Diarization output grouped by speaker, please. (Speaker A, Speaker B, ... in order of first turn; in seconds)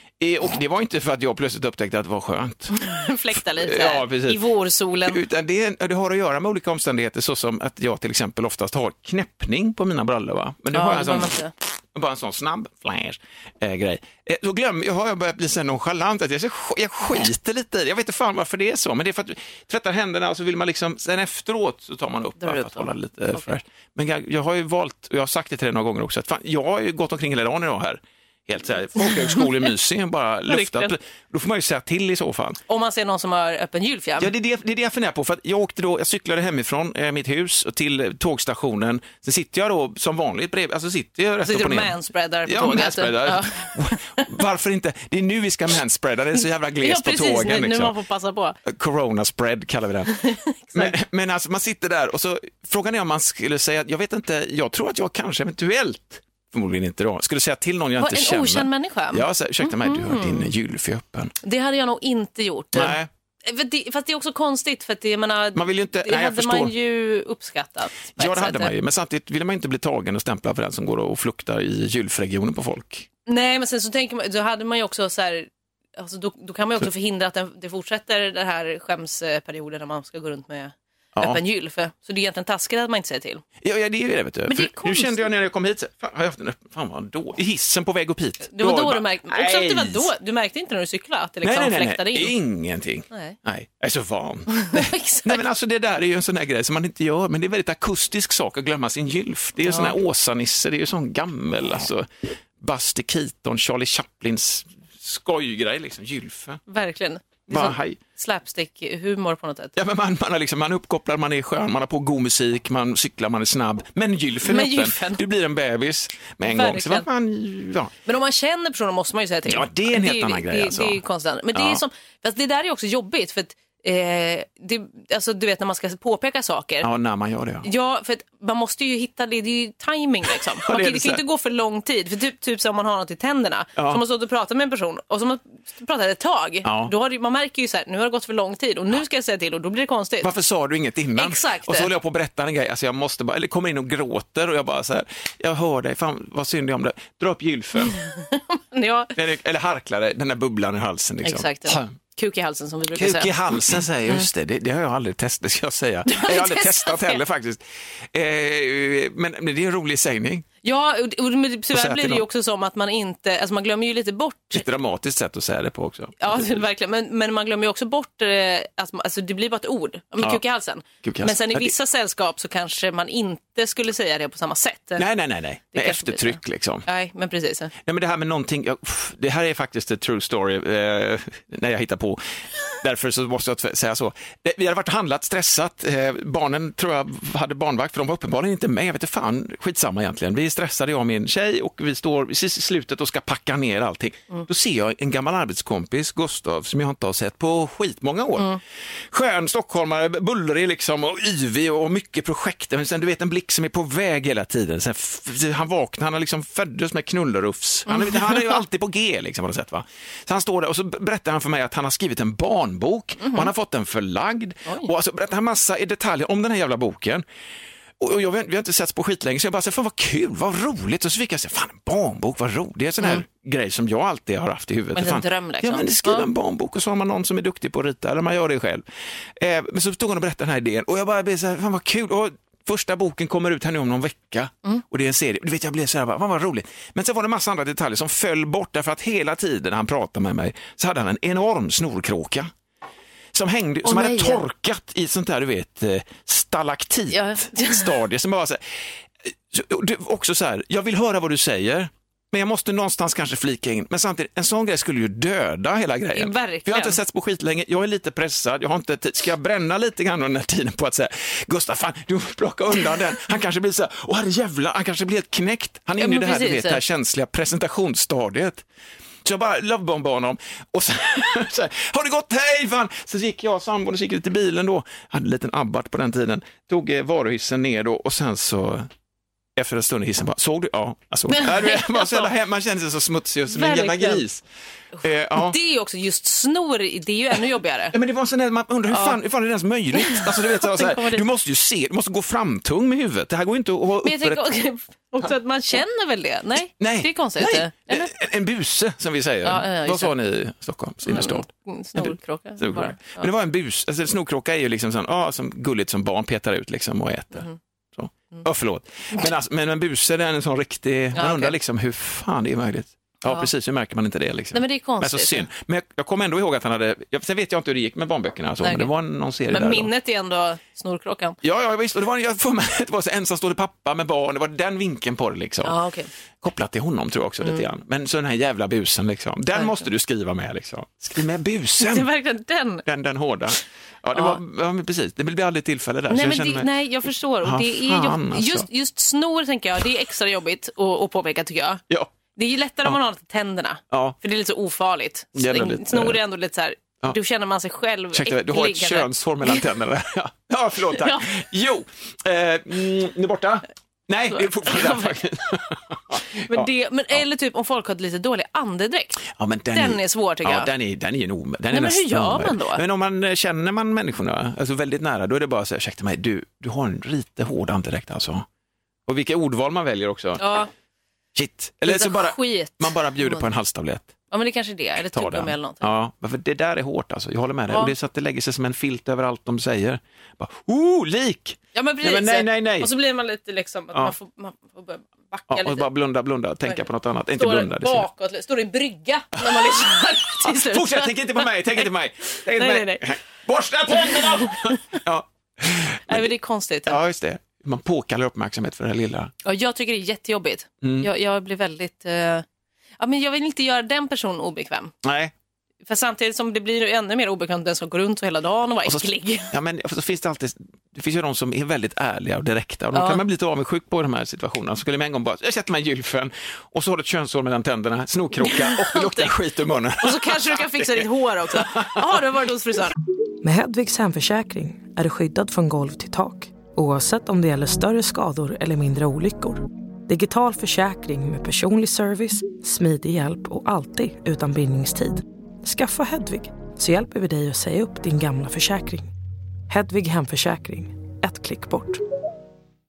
Speaker A: 0.2-2.8, 3.4-4.4, 5.1-11.4, 11.9-32.6, 34.2-47.9, 48.6-50.1, 50.7-61.3, 62.7-63.1, 65.5-66.7, 68.2-73.1, 81.2-81.4, 83.6-90.1, 91.4-102.1, 102.6-106.6, 107.5-108.0, 109.8-117.9, 119.5-121.0, 121.5-121.8, 126.8-127.7, 130.6-131.2, 133.8-134.0, 136.7-136.9, 140.2-148.0, 149.2-151.9, 152.9-160.5, 161.7-162.2, 164.5-166.6, 171.0-171.7, 175.0-176.8, 177.8-217.2, 218.0-228.8, 229.4-242.5, 243.3-268.7, 269.2-278.9, 279.6-284.4, 285.0-285.6, 287.9-294.4, 296.8-319.9, 321.4-325.8, 326.4-332.1, 332.9-336.7, 337.4-338.7, 343.9-344.2, 345.4-346.2, 348.1-356.7, 359.3-368.5, 369.1-370.4, 371.4-374.1, 375.1-382.9, 385.5-388.1, 389.4-389.7, 390.4-396.3, 396.9-399.3, 400.8-401.1, 405.0-405.3, 408.9-422.1
Speaker B: 2.7-5.2, 10.7-11.5, 22.4-23.5, 29.1-29.5, 30.5-30.9, 32.7-34.3, 41.5-44.3, 46.8-48.6, 50.1-51.0, 58.0-60.5, 61.4-68.7, 73.3-83.4, 84.5-85.3, 88.5-92.3, 93.1-93.4, 94.5-95.4, 99.7-100.0, 106.7-109.7, 114.4-115.2, 116.5-117.1, 118.0-126.9, 127.6-140.3, 141.2-141.9, 147.9-149.1, 151.2-153.4, 156.1-157.2, 160.6-164.6, 166.2-175.1, 175.7-177.7, 207.9-208.6, 213.2-213.5, 214.7-214.9, 224.9-226.3, 243.8-244.4, 247.1-247.9, 256.1-257.0, 266.0-266.8, 281.3-282.3, 283.5-284.2, 285.4-287.9, 288.9-289.2, 289.9-291.2, 294.0-298.1, 299.4-300.1, 301.1-303.3, 311.2-311.6, 314.5-315.5, 318.6-318.9, 319.5-321.4, 325.6-326.1, 327.4-327.7, 329.6-329.8, 331.8-332.9, 336.1-341.8, 342.4-349.7, 350.9-351.3, 354.3-355.2, 356.5-360.7, 361.7-362.8, 370.4-370.7, 371.9-373.5, 374.3-375.9, 381.7-385.9, 386.7-391.9, 392.6-393.1, 394.0-394.7, 396.1-397.0, 399.4-402.4, 403.0-404.9, 405.9-409.5, 412.9-413.2, 418.4-419.4, 420.0-422.9
Speaker C: 423.4-439.1, 439.7-442.0